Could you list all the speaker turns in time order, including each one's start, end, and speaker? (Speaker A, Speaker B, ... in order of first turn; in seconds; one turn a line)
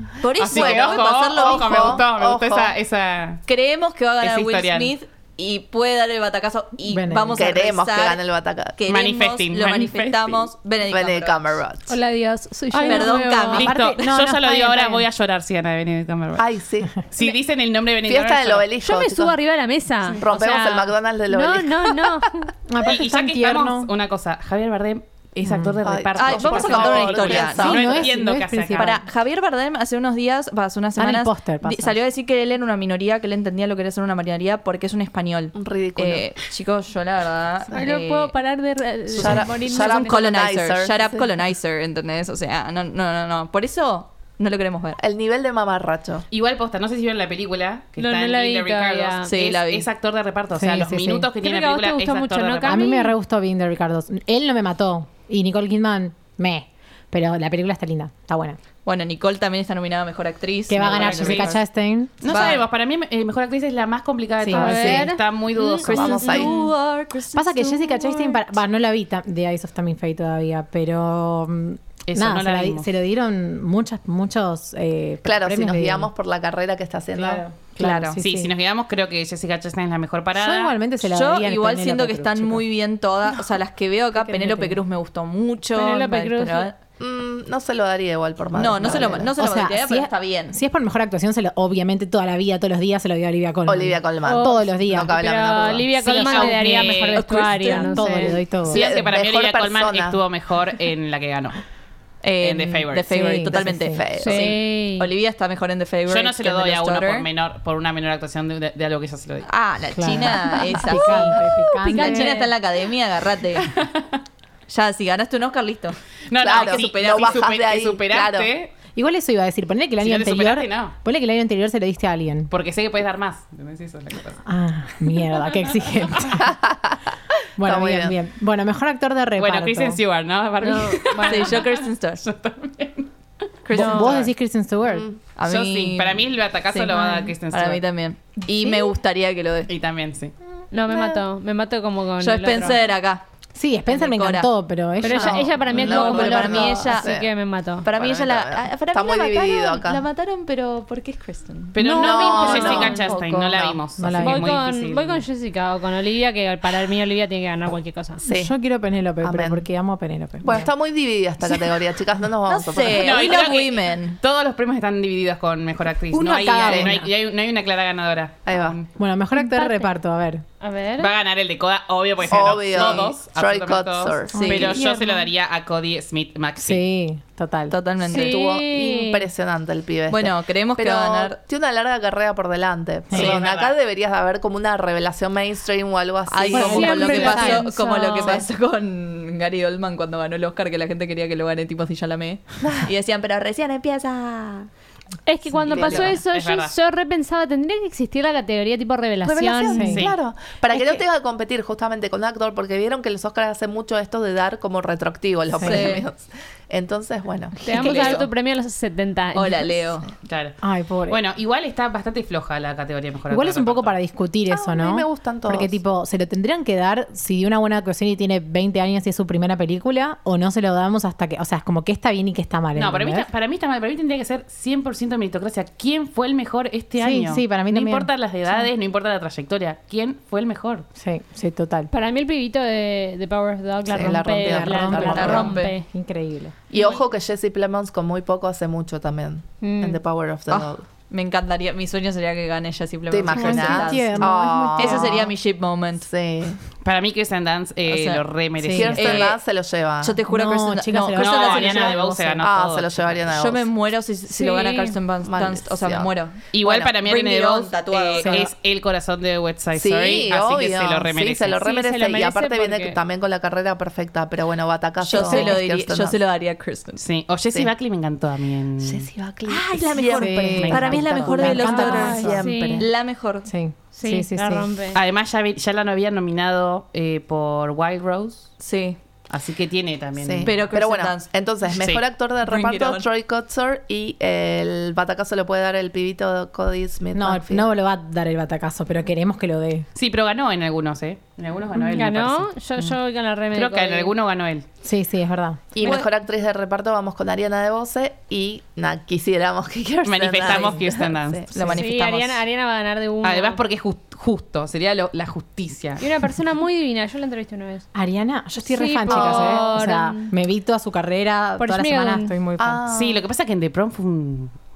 Speaker A: 0.2-2.0
Speaker B: 0.4-3.4
Speaker C: 0.4-2.7
Speaker A: 3.5-8.2
Speaker B: 4.2-4.9
Speaker D: 6.9-7.5
Speaker C: 7.3-8.8
Speaker A: 8.8-11.6
Speaker B: 8.9-10.5
Speaker C: 10.9-11.9
Speaker E: 11.9-13.7
Speaker D: 12.7-15.1
Speaker A: 12.8-14.1
Speaker B: 13.5-16.5
Speaker C: 16.4-17.0
Speaker B: 17.1-18.7
Speaker C: 18.1-19.4
Speaker E: 18.8-22.4
Speaker C: 20.2-22.2
Speaker D: 22.7-23.9
Speaker B: 22.9-29.0
Speaker D: 25.4-25.8
Speaker C: 25.9-28.1
Speaker A: 26.2-28.0
Speaker D: 27.6-29.1
Speaker A: 28.7-38.3
Speaker D: 31.0-32.0
Speaker C: 35.5-36.3
Speaker E: 37.7-40.3
Speaker A: 39.1-45.0
Speaker C: 39.2-41.3
Speaker C: 45.0-46.2
Speaker B: 46.3-52.9
Speaker E: 48.0-49.3
Speaker A: 49.2-49.9
Speaker D: 50.5-51.3
Speaker E: 51.4-53.1
Speaker D: 52.6-58.6
Speaker A: 58.9-61.6
Speaker D: 60.7-62.5
Speaker B: 60.9-61.6
Speaker B: 62.2-66.2
Speaker A: 62.2-62.6
Speaker D: 64.4-65.0
Speaker E: 64.5-66.7
Speaker C: 64.7-65.0
Speaker A: 65.8-68.0
Speaker C: 65.9-66.5
Speaker D: 67.3-76.1
Speaker B: 72.1-72.9
Speaker C: 75.2-77.5
Speaker D: 77.1-78.5
Speaker A: 77.8-78.2
Speaker B: 78.2-80.8
Speaker D: 80.3-82.6
Speaker A: 81.0-86.8
Speaker D: 84.2-84.8
Speaker E: 85.8-86.7
Speaker C: 87.0-89.4
Speaker A: 88.5-90.6
Speaker D: 88.9-95.2
Speaker C: 93.7-95.9
Speaker E: 94.2-98.4
Speaker B: 96.0-97.2
Speaker A: 97.1-98.2
Speaker D: 97.8-98.8
Speaker C: 98.7-100.2
Speaker B: 98.7-101.6
Speaker A: 102.2-107.3
Speaker B: 102.4-103.2
Speaker D: 103.1-104.0
Speaker C: 103.6-104.6
Speaker E: 104.2-105.1
Speaker B: 106.1-109.5
Speaker A: 109.5-113.7
Speaker D: 109.9-112.5
Speaker E: 111.8-112.5
Speaker B: 113.6-114.2
Speaker A: 114.7-117.4
Speaker B: 116.3-118.7
Speaker C: 116.4-118.5
Speaker D: 119.0-122.5
Speaker B: 120.0-120.9
Speaker B: 122.5-124.4
Speaker D: 124.5-126.6
Speaker C: 126.4-127.0
Speaker D: 127.6-130.0
Speaker C: 127.6-128.2
Speaker B: 129.4-133.1
Speaker E: 130.6-131.6
Speaker A: 131.2-132.2
Speaker A: 133.7-134.3
Speaker D: 133.7-135.1
Speaker B: 133.7-134.3
Speaker E: 133.8-134.1
Speaker C: 134.8-135.2
Speaker A: 135.4-139.7
Speaker B: 135.4-137.8
Speaker D: 138.6-138.9
Speaker B: 139.7-140.3
Speaker E: 140.7-142.8
Speaker C: 140.9-141.2
Speaker A: 142.2-143.2
Speaker D: 143.6-145.7
Speaker A: 143.9-144.5
Speaker E: 145.0-147.9
Speaker C: 145.1-147.3
Speaker A: 145.7-147.1
Speaker A: 147.8-153.5
Speaker C: 147.9-150.1
Speaker B: 151.7-155.2
Speaker E: 151.8-153.0
Speaker C: 151.9-153.8
Speaker D: 154.0-154.6
Speaker E: 154.2-158.2
Speaker D: 158.2-160.7
Speaker C: 158.2-158.6
Speaker C: 159.2-159.7
Speaker C: 160.4-163.4
Speaker A: 162.5-164.2
Speaker B: 163.0-168.8
Speaker D: 166.1-167.1
Speaker C: 166.6-167.0
Speaker C: 168.5-168.8
Speaker D: 169.0-170.4
Speaker E: 169.3-169.9
Speaker E: 170.6-171.1
Speaker B: 171.0-176.8
Speaker C: 172.3-174.6
Speaker D: 174.3-174.9
Speaker A: 174.3-174.8
Speaker E: 174.8-175.3
Speaker D: 176.6-177.8
Speaker A: 177.7-178.4
Speaker E: 178.1-179.3
Speaker C: 178.1-187.5
Speaker A: 180.1-181.4
Speaker D: 183.1-183.4
Speaker B: 183.1-183.8
Speaker A: 186.3-194.7
Speaker D: 186.5-187.7
Speaker E: 186.5-188.4
Speaker C: 192.6-192.9
Speaker E: 195.3-200.0
Speaker C: 195.7-196.2
Speaker A: 195.7-196.1
Speaker B: 196.1-196.7
Speaker C: 199.2-208.2
Speaker D: 199.7-200.1
Speaker B: 199.9-200.2
Speaker D: 205.6-205.9
Speaker A: 205.6-206.1
Speaker E: 207.6-209.9
Speaker A: 207.7-208.3
Speaker D: 207.7-207.9
Speaker A: 209.3-210.1
Speaker B: 210.2-214.0
Speaker D: 210.6-211.2
Speaker D: 213.3-223.3
Speaker C: 214.5-215.8
Speaker B: 222.8-230.8
Speaker D: 227.0-228.7
Speaker D: 231.0-231.9
Speaker E: 231.9-235.9
Speaker C: 233.9-235.6
Speaker D: 234.4-236.6
Speaker A: 235.0-235.8
Speaker C: 236.7-240.8
Speaker E: 236.7-237.0
Speaker E: 239.6-240.0
Speaker A: 240.5-246.1
Speaker C: 243.1-245.3
Speaker D: 243.3-245.3
Speaker C: 246.0-246.6
Speaker B: 246.8-249.2
Speaker A: 247.9-248.2
Speaker D: 248.6-249.2
Speaker C: 248.7-250.2
Speaker A: 248.9-249.4
Speaker A: 250.0-252.1
Speaker D: 250.3-252.4
Speaker B: 251.2-253.2
Speaker C: 252.4-253.7
Speaker A: 253.3-258.5
Speaker E: 254.3-255.0
Speaker C: 255.2-256.1
Speaker B: 256.5-261.6
Speaker D: 258.2-258.5
Speaker C: 259.8-266.2
Speaker E: 261.6-263.0
Speaker A: 265.0-267.0
Speaker D: 265.2-265.6
Speaker B: 267.0-269.1
Speaker C: 268.8-272.9
Speaker A: 269.5-273.5
Speaker D: 270.1-272.4
Speaker B: 270.6-271.2
Speaker E: 271.8-272.9
Speaker D: 273.4-274.7
Speaker E: 273.9-275.0
Speaker B: 274.9-278.5
Speaker A: 278.6-279.0
Speaker B: 279.3-280.5
Speaker C: 280.2-287.7
Speaker A: 280.4-281.3
Speaker B: 281.7-282.0
Speaker A: 282.4-283.1
Speaker D: 287.1-289.9
Speaker B: 289.9-292.5
Speaker E: 291.9-294.1
Speaker B: 293.5-294.6
Speaker D: 294.8-295.7
Speaker C: 295.8-301.5
Speaker A: 295.8-296.1
Speaker B: 300.0-301.5
Speaker A: 301.5-302.4
Speaker E: 301.7-303.6
Speaker B: 303.2-306.0
Speaker E: 306.0-307.9
Speaker D: 307.9-312.8
Speaker E: 308.6-310.3
Speaker C: 309.1-309.6
Speaker E: 311.6-312.3
Speaker C: 312.6-313.2
Speaker B: 312.9-314.5